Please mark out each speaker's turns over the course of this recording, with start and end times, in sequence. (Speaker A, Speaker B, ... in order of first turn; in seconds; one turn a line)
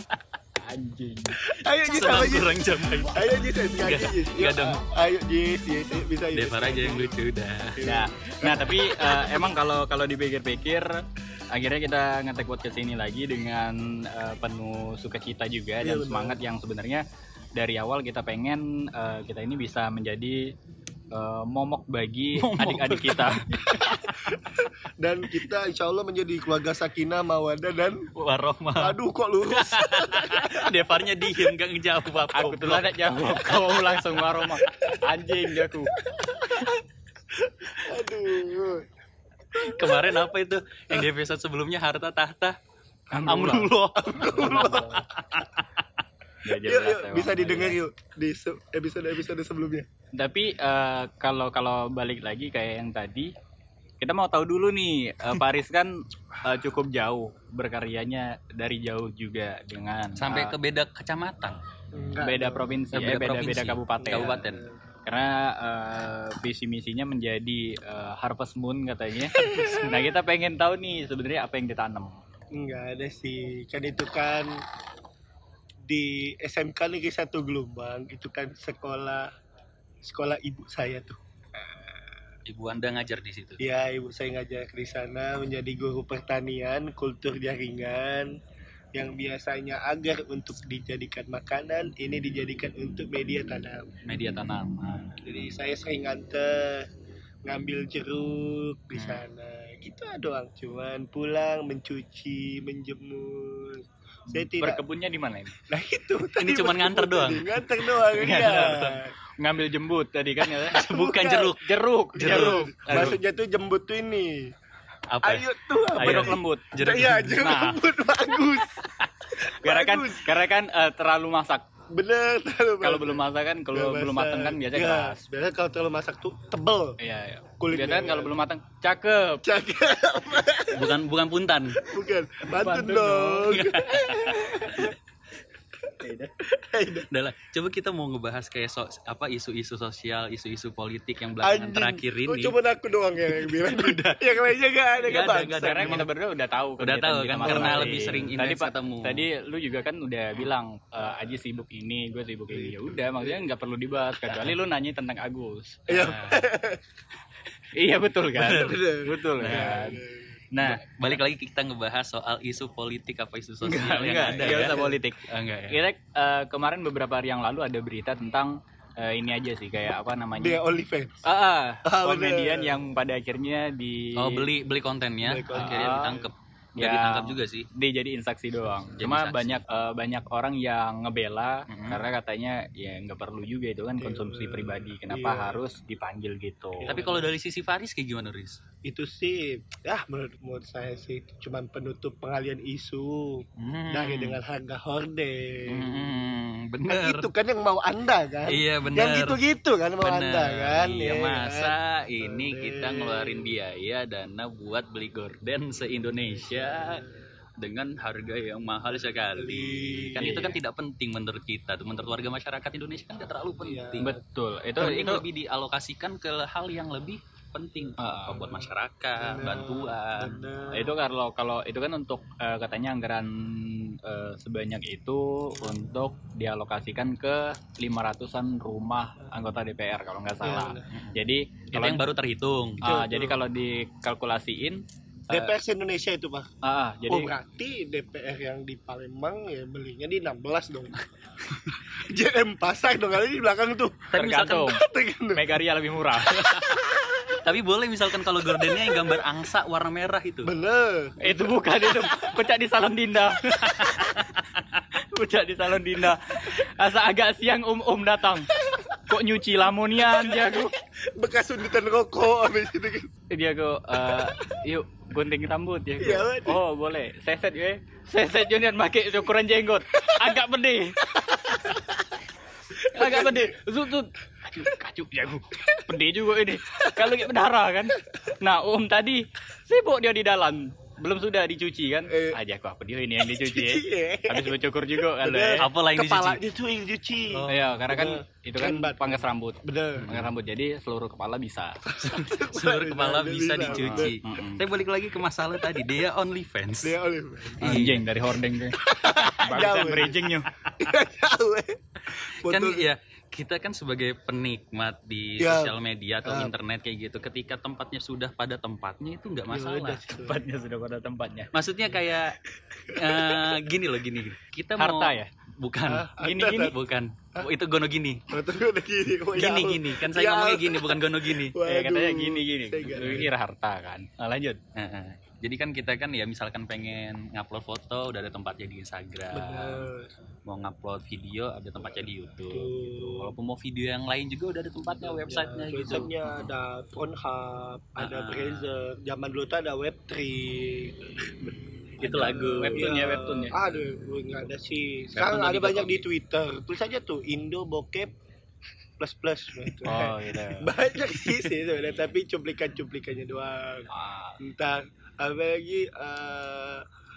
Speaker A: 0.6-1.4
Speaker B: 1.4-9.4
Speaker C: 1.9-4.8
Speaker C: 6.3-7.8
Speaker A: 7.8-10.9
Speaker A: 11.5-17.0
Speaker B: 15.8-16.4
Speaker A: 17.6-20.5
Speaker A: 21.1-24.1
Speaker C: 22.4-24.0
Speaker B: 23.9-28.1
Speaker C: 28.2-29.0
Speaker B: 28.8-30.7
Speaker C: 29.5-33.6
Speaker A: 32.3-35.9
Speaker B: 34.5-34.9
Speaker B: 36.0-36.8
Speaker B: 37.6-38.9
Speaker B: 39.5-40.2
Speaker C: 39.6-42.6
Speaker A: 43.1-43.7
Speaker C: 43.2-45.6
Speaker B: 44.0-45.0
Speaker A: 44.4-45.0
Speaker A: 46.4-47.8
Speaker B: 46.6-49.9
Speaker A: 50.1-53.3
Speaker A: 54.0-55.9
Speaker A: 56.4-60.6
Speaker C: 60.2-61.6
Speaker B: 61.9-62.8
Speaker A: 62.2-64.4
Speaker C: 62.9-64.6
Speaker B: 64.0-64.7
Speaker A: 65.1-72.1
Speaker B: 69.3-70.0
Speaker B: 72.5-74.6
Speaker B: 75.9-79.3
Speaker B: 80.0-82.0
Speaker C: 82.5-83.6
Speaker B: 83.6-88.3
Speaker B: 88.9-93.9
Speaker C: 94.1-95.1
Speaker B: 95.2-96.9
Speaker B: 97.5-104.8
Speaker C: 99.0-99.2
Speaker A: 104.3-105.6
Speaker B: 105.7-109.1
Speaker C: 106.4-107.6
Speaker A: 108.1-110.8
Speaker C: 110.7-111.6
Speaker B: 110.7-111.6
Speaker A: 111.6-113.2
Speaker B: 112.1-114.5
Speaker C: 112.2-113.2
Speaker C: 115.1-115.5
Speaker B: 115.2-118.8
Speaker A: 116.0-116.7
Speaker C: 116.0-117.4
Speaker A: 117.3-117.8
Speaker A: 119.2-121.7
Speaker B: 119.4-120.4
Speaker B: 121.9-127.0
Speaker A: 122.8-125.2
Speaker A: 127.0-129.4
Speaker B: 127.6-128.4
Speaker B: 129.4-131.0
Speaker C: 130.7-131.8
Speaker B: 131.8-134.9
Speaker A: 132.5-133.6
Speaker C: 133.5-134.9
Speaker A: 136.0-136.3
Speaker B: 136.5-137.1
Speaker C: 137.1-142.6
Speaker B: 141.4-146.1
Speaker C: 143.3-144.4
Speaker C: 145.0-146.1
Speaker A: 145.4-155.9
Speaker C: 146.8-149.3
Speaker B: 147.4-147.9
Speaker B: 152.5-153.4
Speaker C: 154.3-154.5
Speaker B: 155.9-156.8
Speaker C: 155.9-156.5
Speaker A: 157.8-160.8
Speaker C: 158.3-158.8
Speaker B: 158.6-160.3
Speaker C: 159.4-160.0
Speaker C: 160.6-165.8
Speaker A: 163.6-170.6
Speaker B: 164.4-165.0
Speaker B: 170.4-171.2
Speaker A: 171.2-174.5
Speaker B: 171.8-172.8
Speaker C: 174.2-177.7
Speaker B: 175.2-176.3
Speaker A: 175.5-176.2
Speaker A: 176.8-187.0
Speaker C: 179.0-179.7
Speaker C: 181.7-182.0
Speaker B: 184.0-185.7
Speaker B: 186.8-187.3
Speaker C: 186.9-188.6
Speaker B: 188.8-196.1
Speaker C: 193.6-194.4
Speaker C: 195.7-197.3
Speaker B: 196.9-203.6
Speaker C: 198.5-199.4
Speaker C: 200.0-207.1
Speaker B: 206.5-207.1
Speaker C: 207.6-214.1
Speaker B: 209.3-210.4
Speaker A: 210.2-210.6
Speaker B: 213.6-214.2
Speaker A: 214.0-215.2
Speaker C: 214.8-220.5
Speaker A: 218.0-218.5
Speaker B: 219.2-221.0
Speaker A: 220.7-232.1
Speaker B: 230.4-230.9
Speaker C: 231.7-232.8
Speaker A: 232.8-234.8
Speaker B: 232.8-233.4
Speaker B: 235.3-236.5
Speaker A: 236.6-237.3
Speaker B: 237.1-240.9
Speaker B: 241.7-244.1
Speaker C: 244.1-244.8
Speaker A: 244.1-246.8
Speaker B: 244.6-245.4
Speaker C: 246.5-246.8
Speaker C: 247.4-250.5
Speaker B: 248.7-249.1
Speaker B: 250.4-252.2
Speaker A: 251.2-254.2
Speaker C: 253.5-254.3
Speaker A: 255.1-258.5
Speaker A: 259.1-260.7
Speaker B: 260.1-260.5
Speaker B: 261.1-263.1
Speaker A: 263.3-271.8
Speaker B: 264.1-264.4
Speaker B: 266.0-266.6
Speaker B: 270.0-270.4
Speaker B: 271.1-271.8
Speaker A: 272.8-285.7
Speaker B: 272.9-273.6
Speaker B: 276.8-277.2
Speaker B: 282.1-282.4
Speaker B: 283.2-290.1
Speaker C: 285.6-286.4
Speaker C: 287.3-287.7
Speaker A: 287.5-291.8
Speaker C: 290.0-290.3
Speaker B: 291.9-294.2
Speaker C: 292.0-297.0
Speaker A: 293.6-294.6
Speaker B: 296.8-297.9
Speaker C: 297.6-298.1
Speaker A: 297.6-300.5
Speaker B: 298.8-300.2
Speaker B: 300.8-302.9
Speaker C: 302.3-310.0
Speaker B: 305.4-306.5
Speaker B: 309.5-310.4
Speaker A: 310.1-311.5
Speaker C: 311.5-312.4
Speaker B: 312.7-313.5
Speaker C: 312.9-318.2
Speaker A: 314.8-315.3
Speaker B: 315.9-316.8
Speaker A: 316.2-316.7
Speaker B: 318.3-323.3
Speaker C: 319.4-321.6
Speaker A: 321.7-324.6
Speaker C: 324.8-329.9
Speaker B: 329.3-330.1
Speaker C: 330.5-336.5
Speaker B: 332.5-333.3
Speaker B: 335.0-348.1
Speaker C: 338.0-338.7
Speaker C: 342.0-342.9
Speaker A: 342.6-343.6
Speaker A: 345.2-345.9
Speaker C: 345.3-346.0
Speaker B: 349.0-353.9
Speaker A: 349.8-351.5
Speaker A: 353.9-354.4
Speaker B: 354.4-356.9